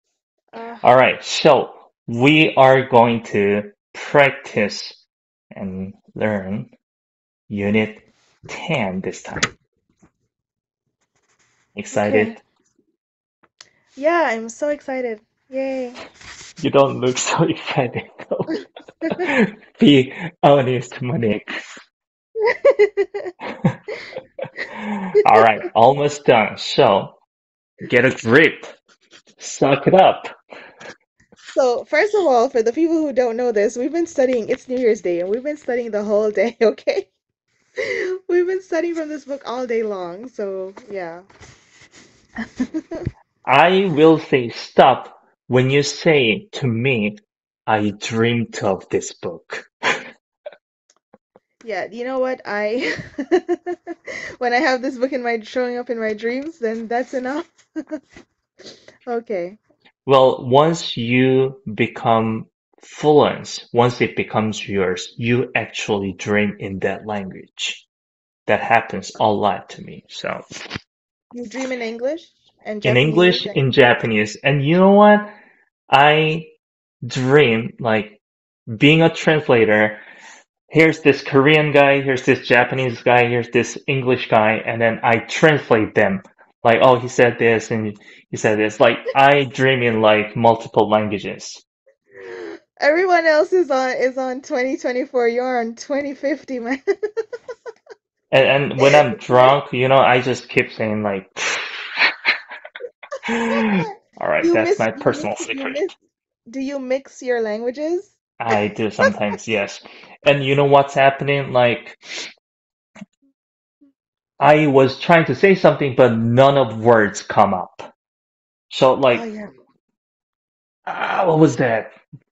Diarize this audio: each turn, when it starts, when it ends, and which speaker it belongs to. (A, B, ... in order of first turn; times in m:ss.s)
0:00.5-0:00.8 A
0:00.8-0:05.0 B
0:05.5-0:06.7 B
0:07.5-0:09.5 B
0:11.8-0:12.4 B
0:11.9-0:12.4 A
0:14.0-0:16.0 A
0:16.6-0:18.6 B
0:19.0-0:19.3 A
0:19.1-0:21.5 B
0:22.4-0:23.3 A
0:23.5-0:23.8 B
0:24.7-0:27.2 B
0:27.8-0:28.7 B
0:29.4-0:30.3 B
0:31.5-0:37.1 A
0:37.8-0:41.2 A
0:42.4-0:43.1 A
0:43.5-0:50.0 B
0:51.6-0:58.0 A
0:59.1-0:59.6 A
1:00.1-1:07.8 B
1:08.5-1:10.4 B
1:11.3-1:13.6 A
1:12.8-1:15.3 B
1:15.9-1:16.5 B
1:17.0-1:18.2 B
1:18.7-1:20.0 B
1:20.7-1:31.6 B
1:32.2-1:37.3 A
1:38.3-1:42.1 B
1:38.8-1:39.5 A
1:43.2-1:45.9 B
1:43.5-1:43.8 A
1:44.4-1:45.9 A
1:46.5-1:48.1 A
1:48.4-1:52.0 B
1:54.4-1:57.9 B
1:58.7-1:59.3 B
1:59.1-1:59.5 A
2:00.9-2:01.9 B